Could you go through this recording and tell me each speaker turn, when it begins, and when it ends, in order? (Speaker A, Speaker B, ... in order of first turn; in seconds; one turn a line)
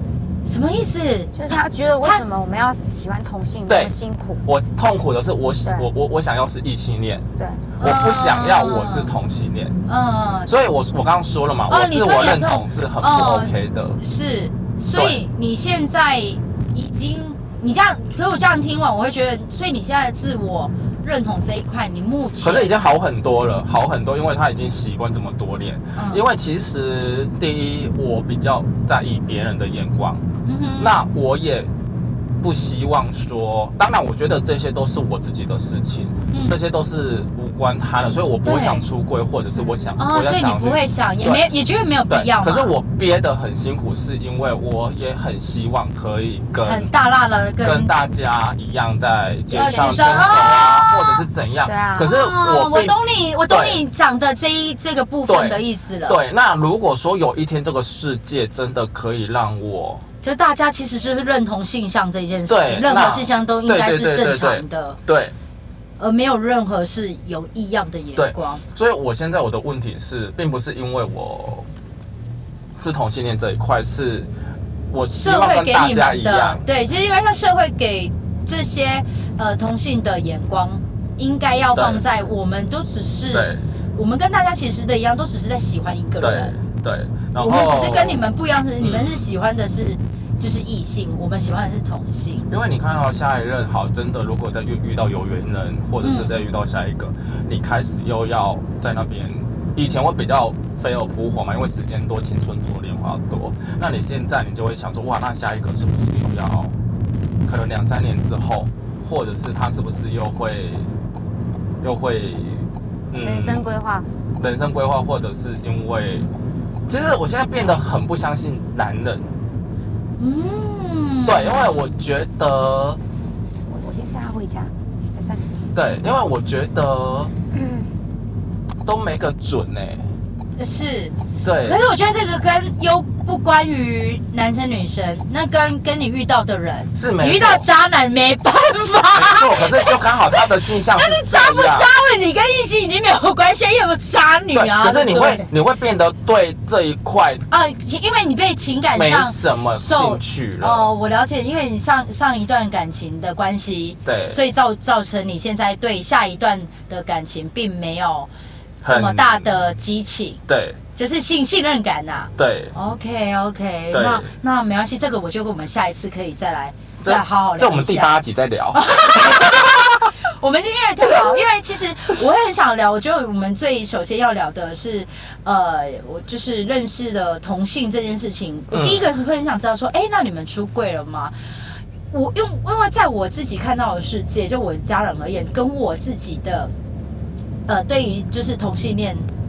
Speaker A: 0.5-2.2
Speaker B: 1.4-4.4
Speaker C: 3.7-3.9
Speaker C: 4.5-7.2
Speaker A: 7.8-9.1
Speaker C: 7.8-9.8
Speaker A: 9.9-10.5
Speaker C: 10.5-14.0
Speaker A: 11.7-22.7
Speaker C: 14.9-15.2
Speaker C: 22.4-30.2
Speaker A: 26.0-26.2
Speaker A: 30.4-30.9
Speaker C: 30.8-31.7
Speaker C: 32.4-41.5
Speaker A: 36.3-36.6
Speaker A: 38.4-38.9
Speaker A: 40.0-42.7
Speaker C: 42.1-46.9
Speaker A: 46.6-47.9
Speaker C: 47.6-53.0
Speaker A: 49.5-51.2
Speaker B: 49.6-50.0
Speaker B: 51.7-52.1
Speaker A: 52.0-56.2
Speaker C: 53.5-53.8
Speaker C: 55.3-60.0
Speaker A: 60.2-65.0
Speaker C: 62.5-65.3
Speaker A: 66.0-68.6
Speaker C: 68.2-71.7
Speaker C: 72.8-74.3
Speaker C: 74.9-76.6
Speaker A: 75.1-86.5
Speaker C: 81.8-82.0
Speaker C: 83.3-83.6
Speaker C: 86.2-89.2
Speaker A: 87.4-92.5
Speaker C: 92.5-106.7
Speaker A: 96.0-96.3
Speaker C: 107.5-110.9
Speaker C: 111.8-113.6
Speaker B: 113.2-114.1
Speaker C: 114.4-116.3
Speaker C: 116.9-119.3
Speaker A: 120.2-121.9
Speaker C: 121.3-123.0
Speaker B: 123.7-125.5
Speaker C: 125.7-127.3
Speaker B: 127.5-127.9
Speaker C: 128.8-130.1
Speaker A: 130.6-145.5
Speaker C: 131.4-131.8
Speaker C: 136.9-137.7
Speaker C: 139.1-141.9
Speaker C: 144.5-147.5
Speaker A: 147.5-158.3
Speaker C: 148.9-150.9
Speaker C: 154.1-154.4
Speaker C: 158.8-159.5
Speaker A: 158.8-160.4
Speaker C: 160.5-160.8
Speaker A: 160.9-168.1
Speaker C: 162.4-162.8
Speaker C: 163.9-164.3
Speaker C: 167.0-169.7
Speaker A: 168.7-181.3
Speaker C: 178.7-179.1
Speaker A: 182.1-186.7
Speaker A: 187.7-189.3